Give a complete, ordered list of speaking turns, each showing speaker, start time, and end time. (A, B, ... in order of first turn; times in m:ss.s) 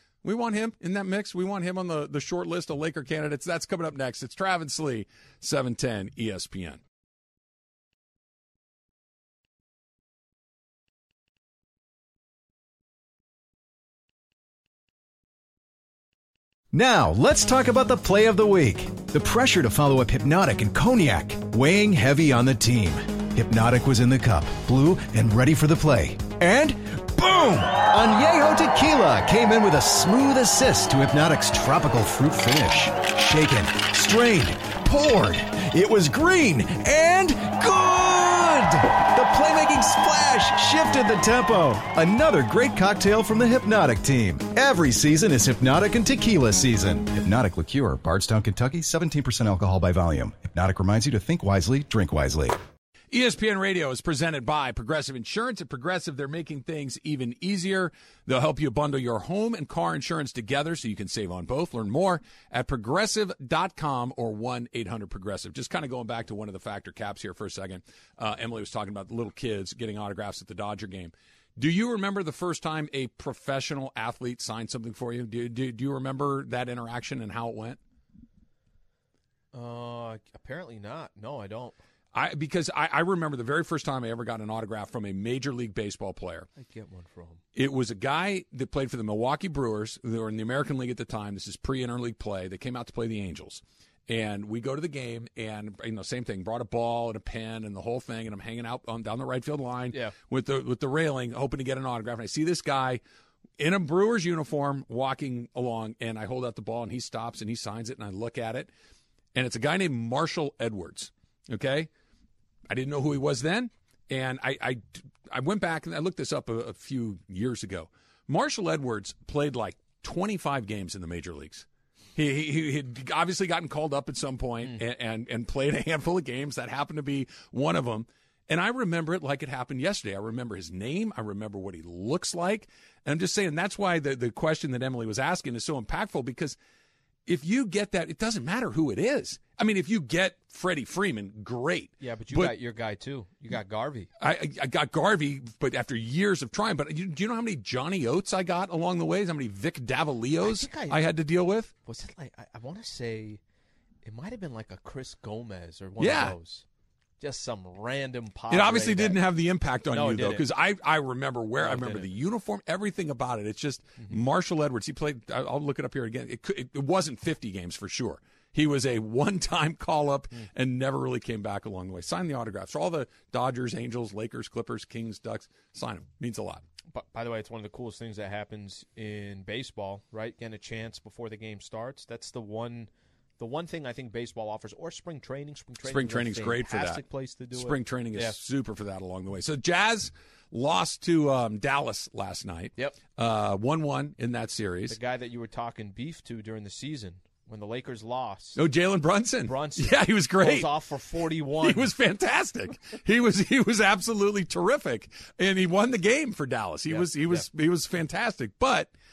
0:00.2-0:06.8 A
0:16.7-0:52.6 B
0:53.1-1:17.8 A
1:19.5-1:21.7 C
1:22.1-1:26.5 A
1:26.6-1:27.4 C
1:27.5-1:43.0 A
1:43.6-1:48.7 A
1:49.3-1:51.9 A
1:52.7-2:16.6 A
2:17.2-2:22.5 A
2:22.0-2:24.1 C
2:24.2-2:31.7 A
2:30.4-2:31.0 C
2:31.8-2:33.4 C
2:34.0-2:36.6 C
2:36.0-2:36.4 A
2:37.2-2:39.2 C
2:38.5-2:56.6 A
2:39.9-2:40.4 C
2:41.6-2:42.1 C
2:56.9-3:08.4 C
3:05.8-3:07.0 A
3:07.5-3:15.0 A
3:14.9-3:18.6 C
3:18.6-3:20.7 A
3:19.4-3:21.9 C
3:21.6-3:28.9 A
3:26.9-3:27.5 C